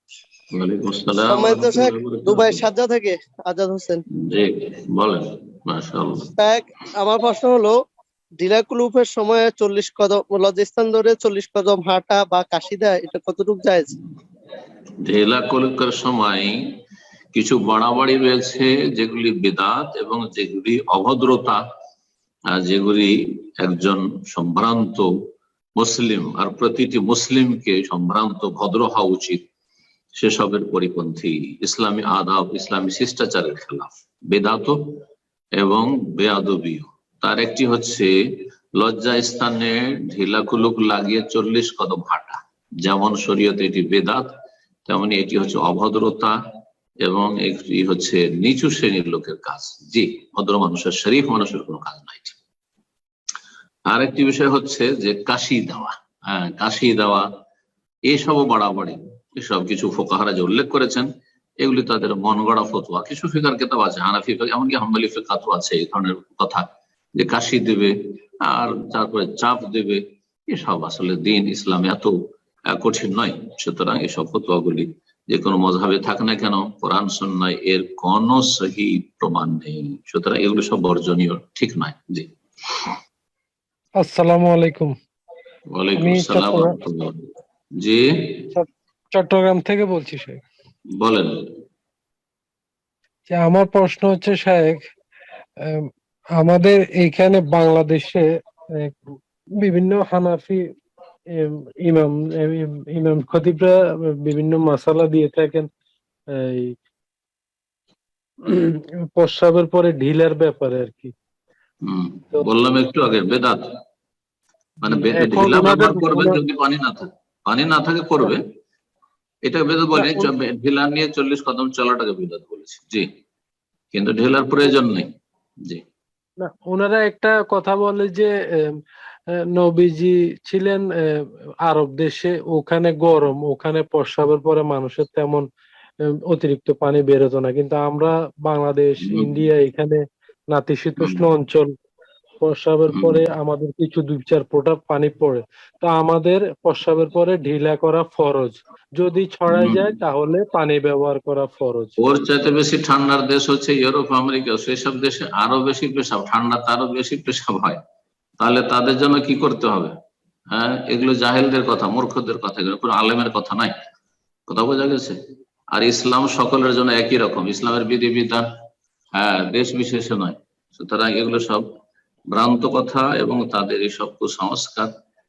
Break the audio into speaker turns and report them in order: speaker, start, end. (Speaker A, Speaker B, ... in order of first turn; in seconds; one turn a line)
Speaker A: 0.5-2.6
Speaker B: 1.3-4.0
Speaker A: 4.3-6.3
Speaker B: 6.4-7.8
Speaker B: 8.4-13.9
Speaker A: 15.0-16.6
Speaker A: 17.3-21.6
Speaker A: 22.5-25.1
Speaker A: 25.8-29.4
Speaker A: 30.2-34.8
Speaker A: 35.6-38.1
Speaker A: 38.8-44.3
Speaker A: 44.9-46.3
Speaker A: 47.0-52.4
Speaker A: 53.9-57.3
Speaker A: 58.1-61.1
Speaker A: 61.6-72.1
Speaker A: 72.7-82.9
Speaker C: 84.0-84.9
Speaker A: 85.7-87.2
Speaker C: 86.0-86.8
Speaker A: 87.8-88.5
Speaker C: 88.5-90.4
Speaker A: 91.0-91.3
Speaker C: 93.3-94.8
Speaker C: 95.6-99.0
Speaker C: 99.6-100.7
Speaker C: 101.3-105.7
Speaker C: 106.3-106.7
Speaker C: 108.4-111.1
Speaker A: 111.8-113.6
Speaker A: 114.8-118.4
Speaker C: 114.8-116.4
Speaker A: 119.5-123.0
Speaker C: 119.9-120.3
Speaker A: 123.9-125.1
Speaker C: 126.4-128.3
Speaker C: 129.5-135.4
Speaker C: 136.3-141.7
Speaker A: 139.0-139.4
Speaker A: 141.0-141.2
Speaker C: 142.4-152.2
Speaker A: 142.9-143.2
Speaker A: 149.5-149.9
Speaker A: 152.0-157.8
Speaker A: 158.4-159.9
Speaker A: 160.5-163.8
Speaker A: 164.5-165.2
Speaker A: 165.7-168.4
Speaker A: 169.2-171.6
Speaker A: 172.3-174.9